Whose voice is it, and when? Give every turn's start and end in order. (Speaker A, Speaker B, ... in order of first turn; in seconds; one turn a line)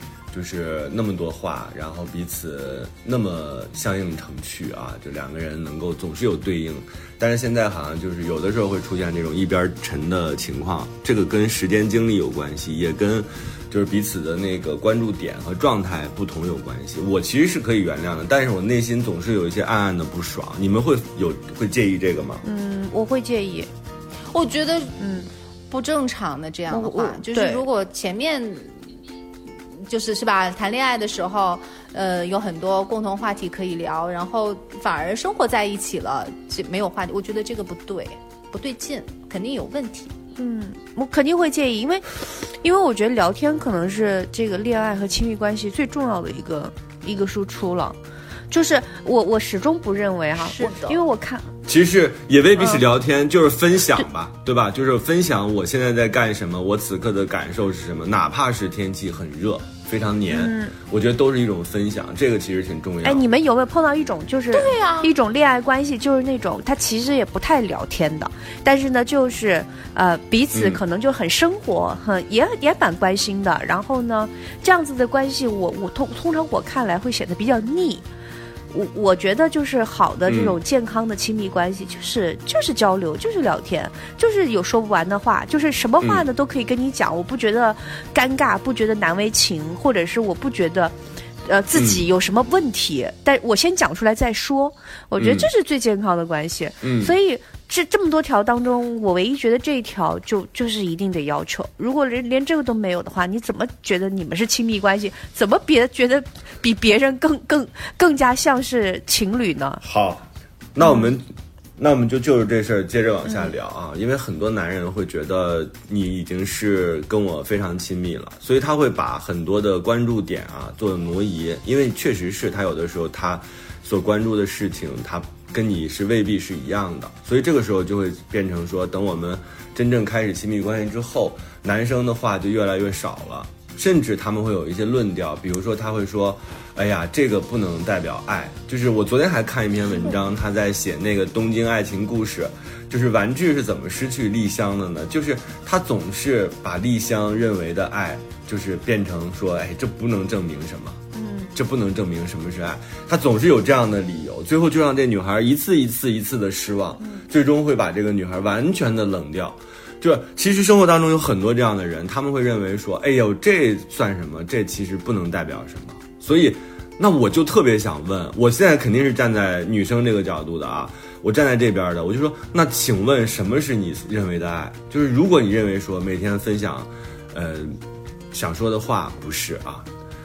Speaker A: 0.3-22.4
Speaker B: 22.4-23.7
Speaker C: 24.3-25.0
Speaker B: 25.0-25.3
Speaker C: 25.7-28.9
Speaker B: 26.7-27.6
Speaker C: 29.9-40.1
Speaker B: 40.4-48.0
Speaker B: 48.5-51.5
Speaker C: 50.4-51.0
Speaker A: 51.6-63.2
Speaker B: 60.3-60.8
Speaker B: 63.0-78.0
Speaker C: 64.5-65.1
Speaker A: 70.5-70.8
Speaker B: 78.7-109.8
Speaker A: 80.3-80.6
Speaker A: 86.0-86.3
Speaker A: 91.8-92.0
Speaker A: 95.2-95.5
Speaker A: 96.8-97.1
Speaker A: 109.8-110.2
Speaker A: 110.8-151.0
Speaker B: 151.1-151.5
Speaker A: 151.6-177.8
Speaker A: 178.3-179.9